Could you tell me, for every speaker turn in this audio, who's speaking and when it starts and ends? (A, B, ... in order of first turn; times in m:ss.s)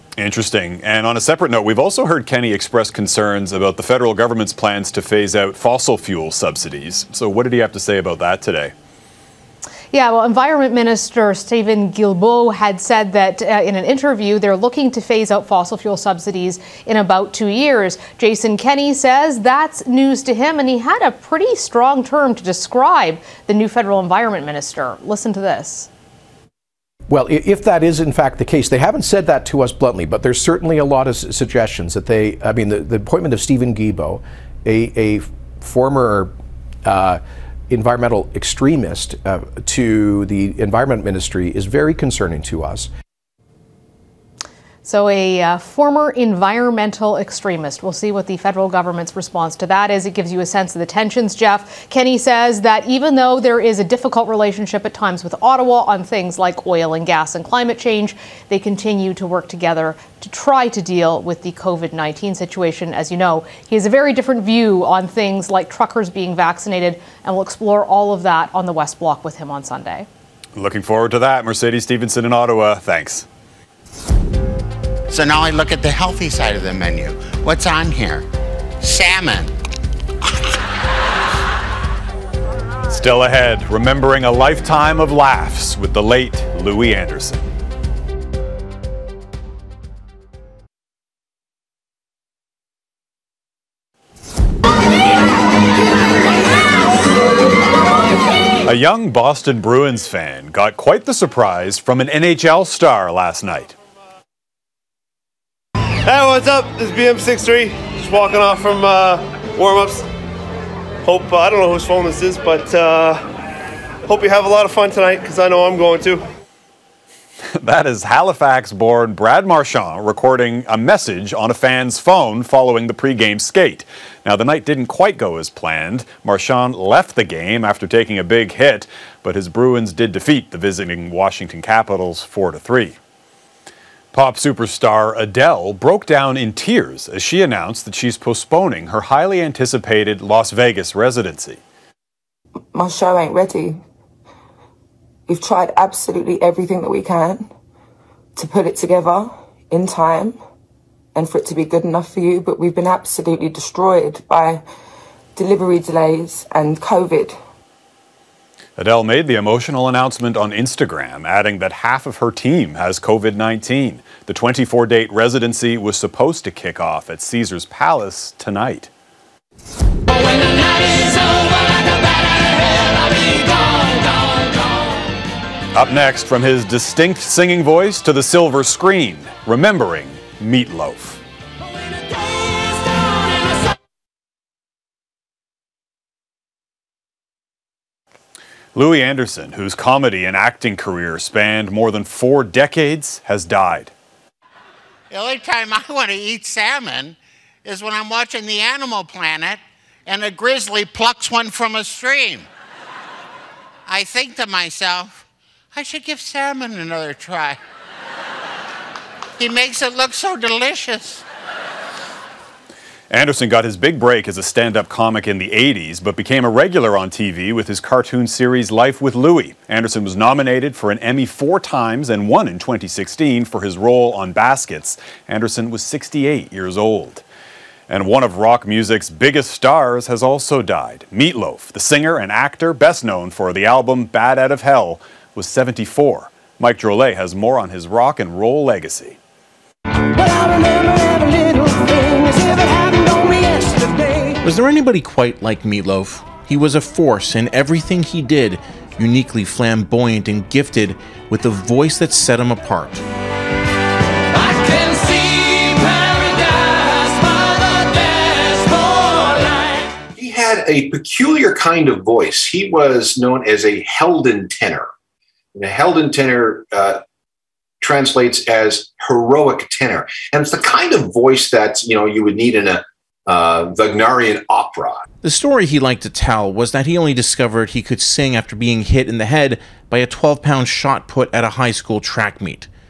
0:00.2-0:08.7 A
0:09.9-0:25.9 B
0:27.1-0:36.3 C
0:36.8-0:42.9 C
0:44.8-1:10.1 B
1:10.6-1:13.3 A
1:15.1-1:18.2 D
1:18.8-1:19.5 D
1:22.9-1:27.5 A
1:38.6-1:43.8 A
1:46.0-1:50.0 E
1:51.0-1:53.2 E
1:54.1-1:56.2 E
1:57.6-2:13.0 A
2:14.1-2:21.6 A
2:22.7-2:23.8 F
2:25.3-2:27.5 F
2:28.4-2:30.4 F
2:31.1-2:34.6 F
2:35.4-2:37.4 F
2:38.8-2:48.9 A
2:55.7-3:01.2 A
3:08.7-3:13.9 A
3:15.1-3:22.5 D
3:23.9-3:25.2 D
3:25.7-3:27.6 D
3:29.4-3:31.2 D
3:33.1-3:47.2 A
3:47.9-3:59.2 A
4:04.4-4:13.0 G
4:20.2-4:24.9 H
4:25.5-4:27.0 H
4:27.8-4:35.0 H
4:35.2-4:42.7 G